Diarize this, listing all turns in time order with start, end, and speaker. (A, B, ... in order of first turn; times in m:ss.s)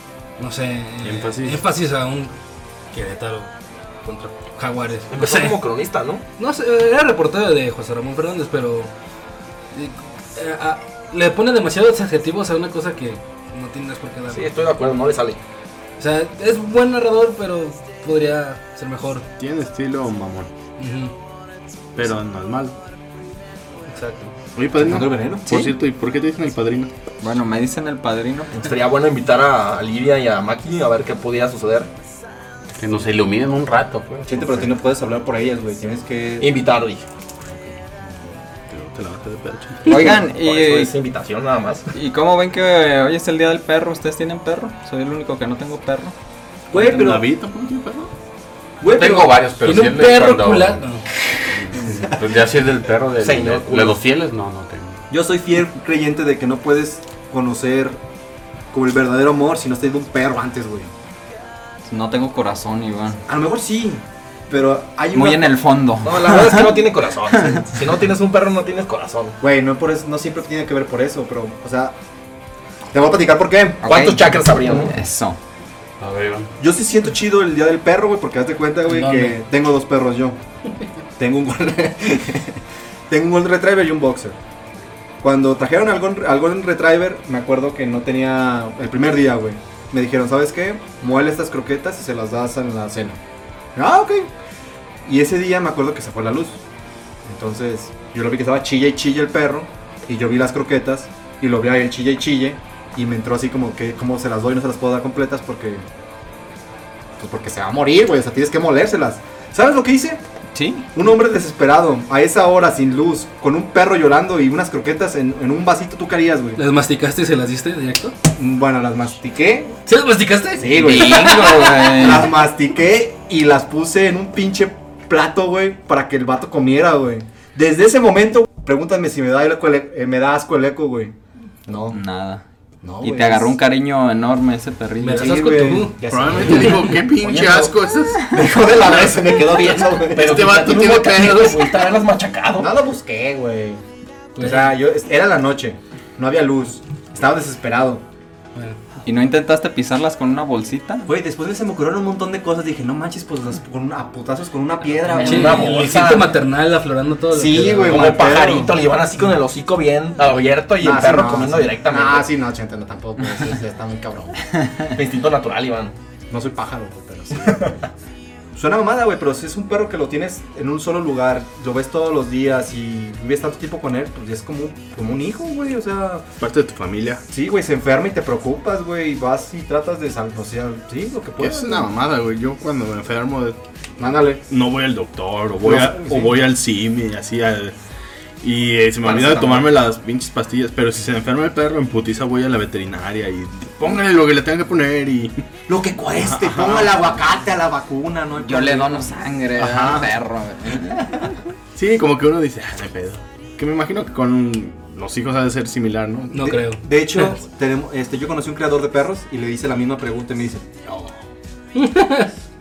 0:00.4-0:02.4 A
0:01.0-0:01.6 B
0:02.9-0:03.5 A
0:04.0-0:05.6 A
0:05.1-0:06.2 C
0:06.4-0:08.9 A
0:09.7-0:14.8 A
0:14.3-0:15.4 C
0:16.0-0:19.3 A
0:19.4-0:20.5 B
0:20.8-0:21.1 A
0:22.0-0:22.8 B
0:23.9-0:24.3 A
0:24.6-0:26.9 B
0:24.8-0:25.5 D
0:25.5-0:25.7 E
0:27.2-0:28.7 E
0:28.6-0:31.9 C
0:32.8-0:34.7 F
0:34.3-0:36.5 D
0:36.4-0:37.0 C
0:38.7-0:40.2 B
0:39.9-0:40.9 E
0:39.9-0:41.9 C
0:41.9-0:46.2 E
0:46.7-0:47.3 D
0:46.7-0:48.1 B
0:48.8-0:49.4 D
0:48.8-0:50.8 F
0:49.6-0:51.0 A
0:51.6-0:55.0 F
0:53.2-0:54.0 C
0:55.1-0:58.0 D
0:58.7-1:00.9 D
1:01.9-1:03.2 E
1:03.3-1:05.6 D
1:05.1-1:06.8 E
1:06.0-1:09.4 C
1:09.4-1:12.0 D
1:12.9-1:13.9 D
1:13.8-1:15.4 E
1:13.8-1:15.0 C
1:16.0-1:16.5 F
1:16.6-1:20.4 D
1:18.9-1:19.4 A
1:21.2-1:22.6 D
1:23.1-1:24.4 D
1:25.2-1:33.2 D
1:33.8-1:34.3 D
1:35.0-1:36.6 D
1:37.2-1:45.9 D
1:47.2-1:50.2 D
1:50.6-1:50.9 E
1:50.9-1:56.6 D
1:56.6-1:58.2 A
1:58.4-1:59.8 D
1:59.9-2:02.0 A
2:00.6-2:11.2 D
2:00.7-2:02.4 E
2:11.7-2:12.0 D
2:11.9-2:12.4 E
2:12.8-2:13.5 D
2:13.0-2:15.8 E
2:15.0-2:16.0 A
2:15.2-2:17.7 D
2:16.1-2:18.3 B
2:18.3-2:20.5 D
2:18.9-2:22.7 C
2:20.2-2:21.8 B
2:22.6-2:23.8 D
2:24.4-2:24.8 A
2:24.4-2:28.0 D
2:29.0-2:31.1 E
2:31.1-2:35.8 D
2:35.1-2:38.4 A
2:35.2-2:36.3 C
2:37.3-2:38.8 D
2:37.7-2:42.3 C
2:40.8-2:44.5 D
2:44.9-2:46.0 C
2:46.3-2:47.8 D
2:48.5-2:56.3 D
2:56.4-2:57.2 B
2:57.3-3:01.9 D
3:01.4-3:03.6 B
3:04.0-3:04.4 D
3:04.4-3:07.8 B
3:05.6-3:06.4 D
3:08.4-3:15.5 B
3:09.0-3:09.7 C
3:15.7-3:19.1 D
3:16.1-3:17.1 B
3:18.4-3:21.4 E
3:19.6-3:20.1 B
3:21.8-3:26.5 B
3:26.3-3:27.3 A
3:26.4-3:31.2 D
3:31.8-3:32.4 A